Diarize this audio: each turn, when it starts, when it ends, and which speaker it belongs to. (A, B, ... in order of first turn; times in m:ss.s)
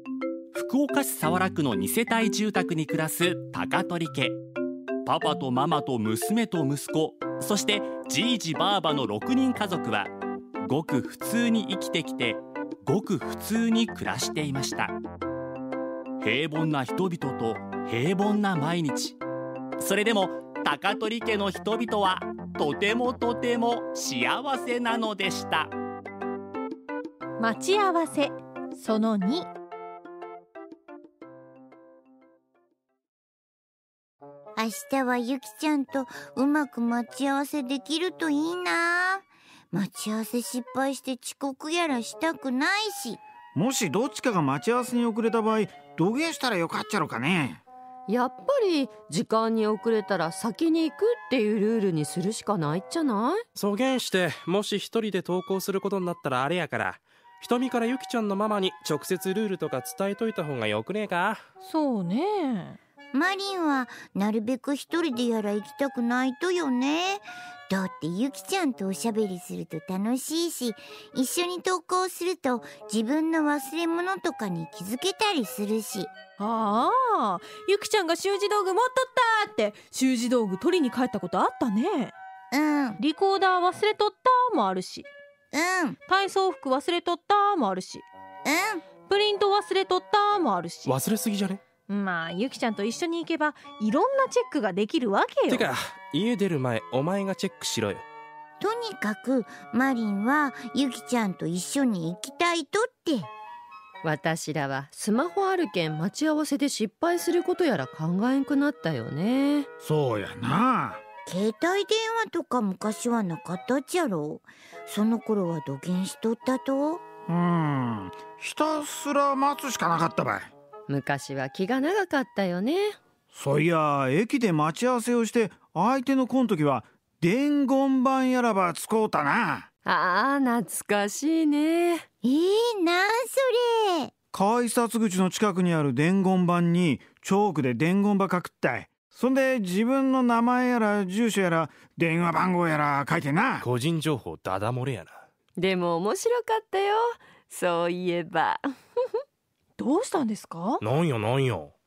0:00.5-0:04.4 A
0:05.0-0:10.1 A
0:10.6-0:14.9 A
0:16.2-0:19.2 A
0:19.8-0:25.7 A
0:27.4-0:29.5 B
0:34.6-0:43.2 C
0:43.6-0:47.6 D
0:48.1-0:53.4 E
0:53.6-1:01.4 F
1:01.6-1:02.8 B
1:03.1-1:16.1 C
1:16.4-1:22.1 B
1:22.5-1:23.0 C
1:23.0-1:25.1 B
1:25.5-1:26.0 C
1:26.1-1:28.1 B
1:28.5-1:28.8 C
1:29.1-1:30.9 B
1:30.9-1:31.6 F
1:31.9-1:35.7 B
1:35.5-1:38.0 F
1:38.6-1:43.3 C
1:44.0-1:49.7 E
1:49.8-1:51.0 D
1:51.3-1:57.1 C
1:57.3-2:00.5 D
2:00.9-2:03.0 E
2:03.3-2:09.7 D
2:09.8-2:12.0 E
2:12.2-2:14.1 C
2:14.3-2:23.7 D
2:23.6-2:25.2 F
2:25.6-2:28.6 E
2:29.8-2:30.8 B
2:30.8-2:31.7 F